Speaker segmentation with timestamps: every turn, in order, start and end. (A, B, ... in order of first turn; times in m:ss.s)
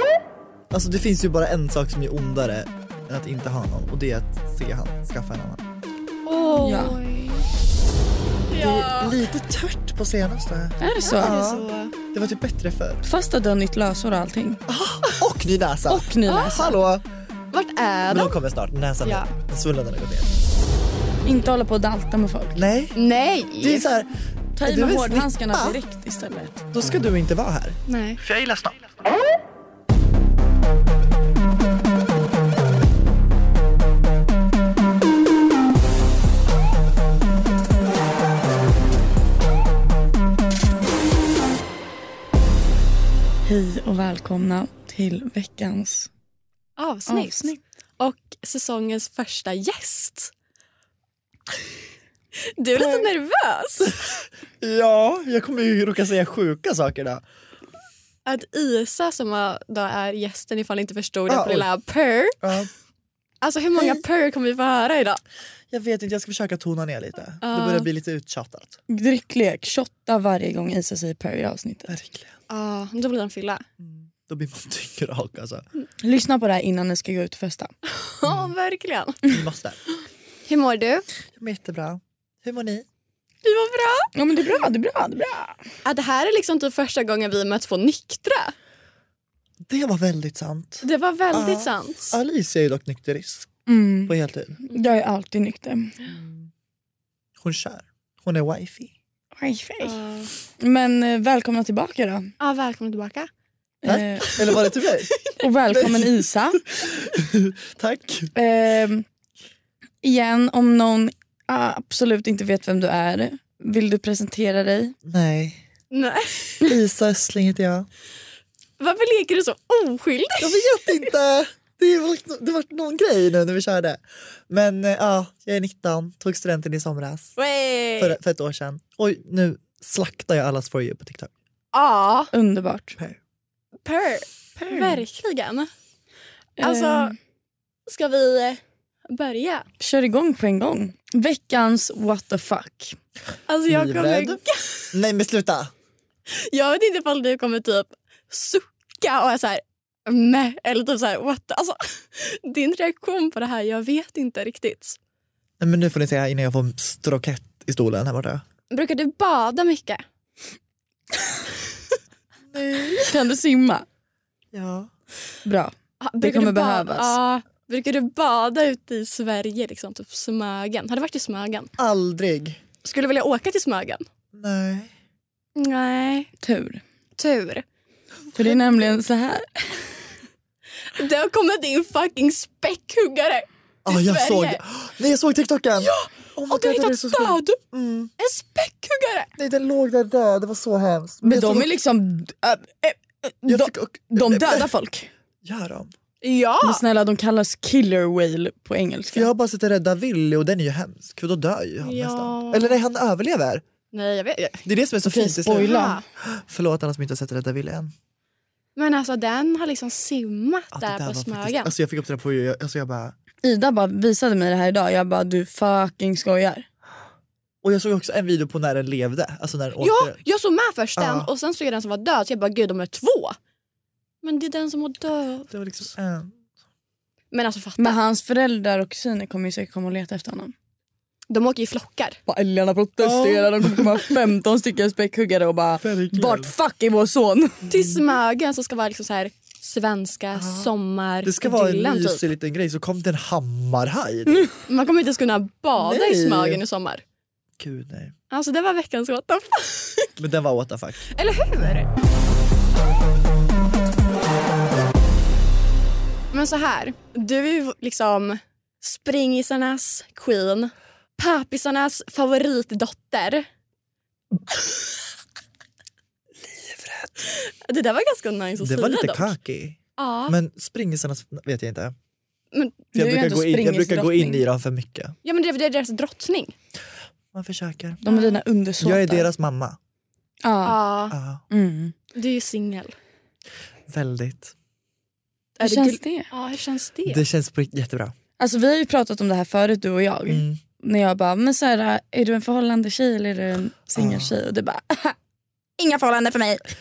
0:00.7-0:05.6 A
0:06.2-0:07.4 B
0:06.6-0:07.0 C
0:08.5-0:09.2 B
0:08.5-0:13.0 A
0:10.8-0:11.4 C
0:11.0-0:11.9 B
0:13.0-0:14.6 C
0:14.7-0:17.0 A
0:15.9-0:16.8 C
0:16.3-0:16.6 B
0:17.5-0:18.3 B
0:18.1-0:20.3 A
0:19.0-0:19.3 B
0:21.2-0:22.7 C
0:22.5-0:23.0 A
0:22.9-0:23.9 B
0:23.6-0:25.8 A
0:24.6-0:26.6 C
0:26.7-0:28.8 A
0:27.9-0:28.2 B
0:43.4-0:46.1 C
0:46.8-0:50.3 B
0:47.1-0:47.6 C
0:52.4-0:54.0 B
0:53.8-0:57.2 A
0:58.2-1:02.4 B
1:01.3-1:01.7 A
1:02.4-1:02.7 A
1:03.4-1:05.2 B
1:05.7-1:08.8 A
1:07.4-1:07.9 B
1:08.9-1:12.0 C
1:11.9-1:12.4 A
1:12.5-1:13.6 B
1:13.8-1:15.6 A
1:16.0-1:17.7 C
1:18.0-1:19.2 B
1:18.2-1:18.5 A
1:19.2-1:19.8 A
1:20.5-1:21.0 B
1:21.3-1:22.8 A
1:23.4-1:24.1 B
1:24.1-1:25.6 C
1:25.8-1:28.5 B
1:29.7-1:33.5 A
1:30.8-1:32.2 B
1:33.7-1:34.1 C
1:34.1-1:34.6 A
1:34.7-1:35.9 C
1:36.1-1:36.5 A
1:37.4-1:38.9 A
1:39.4-1:40.0 C
1:39.8-1:40.3 B
1:40.6-1:42.3 C
1:42.4-1:43.3 B
1:43.8-1:44.5 C
1:43.8-1:48.3 A
1:45.4-1:46.6 C
1:48.3-1:49.0 C
1:50.0-1:54.9 C
1:55.0-1:55.6 A
1:55.9-1:56.6 B
1:56.6-1:57.9 A
1:58.8-2:00.9 B
2:00.4-2:07.4 A
2:07.4-2:08.2 B
2:08.0-2:11.3 A
2:11.7-2:12.3 B
2:12.3-2:13.0 C
2:13.8-2:15.7 B
2:16.6-2:17.1 B
2:16.6-2:17.2 C
2:17.8-2:19.6 B
2:19.8-2:23.0 C
2:23.5-2:24.9 B
2:23.7-2:24.4 A
2:24.9-2:25.7 A
2:26.3-2:35.0 B
2:35.6-2:38.4 A
2:38.7-2:40.0 B
2:42.5-2:43.2 A
2:43.0-2:43.8 C
2:44.5-2:44.9 A
2:45.4-2:47.2 C
2:46.0-2:51.7 B
2:51.8-2:52.6 A
2:52.8-2:54.0 B
2:54.3-2:54.9 A
2:55.6-2:56.3 B
2:56.4-2:56.8 C
2:57.2-2:57.6 B
2:58.3-2:59.8 C
3:00.9-3:04.6 B
3:03.8-3:08.1 A
3:05.8-3:07.6 B
3:08.2-3:09.3 B
3:09.4-3:11.7 A
3:11.2-3:15.1 C
3:13.4-3:14.7 A
3:15.4-3:15.9 A
3:16.2-3:16.8 B
3:16.6-3:19.3 C
3:19.1-3:23.6 A
3:21.8-3:22.8 B
3:23.9-3:24.6 B
3:24.5-3:27.9 A
3:25.0-3:26.0 C
3:25.6-3:26.0 B
3:28.8-3:31.7 B
3:30.7-3:33.1 A
3:33.4-3:36.7 C
3:37.6-3:40.2 A
3:39.8-3:43.4 B
3:41.0-3:41.3 A
3:44.2-3:45.5 B
3:45.5-3:46.4 A
3:47.3-3:48.0 B
3:47.8-3:50.5 C
3:51.3-3:52.2 B
3:52.3-3:57.6 C
3:53.0-3:54.0 A
3:55.8-3:56.5 A
3:57.7-4:02.2 B
3:57.7-3:58.0 A
4:00.3-4:00.7 A
4:01.2-4:04.5 A
4:04.7-4:07.0 B
4:05.8-4:06.6 A
4:07.6-4:08.1 A
4:08.3-4:10.1 B
4:10.2-4:11.1 A
4:11.1-4:11.9 B
4:16.3-4:23.4 B
4:26.4-4:27.1 A
4:27.2-4:29.3 B
4:28.6-4:32.0 A
4:30.0-4:30.4 B
4:32.5-4:32.8 B
4:32.9-4:34.4 C
4:32.9-4:35.2 A
4:35.2-4:36.5 B
4:37.3-4:38.0 A
4:38.0-4:39.3 C
4:38.1-4:38.4 B
4:38.8-4:39.8 A
4:40.4-4:40.8 C
4:40.6-4:41.2 B
4:41.1-4:41.4 A
4:41.5-4:41.9 C
4:42.1-4:43.0 B
4:43.9-4:44.5 A
4:45.6-4:46.3 C
4:45.6-4:47.2 B
4:47.0-4:48.1 A
4:48.4-4:55.2 C
4:50.3-4:50.6 A
4:53.9-4:54.3 A
4:55.8-4:56.7 C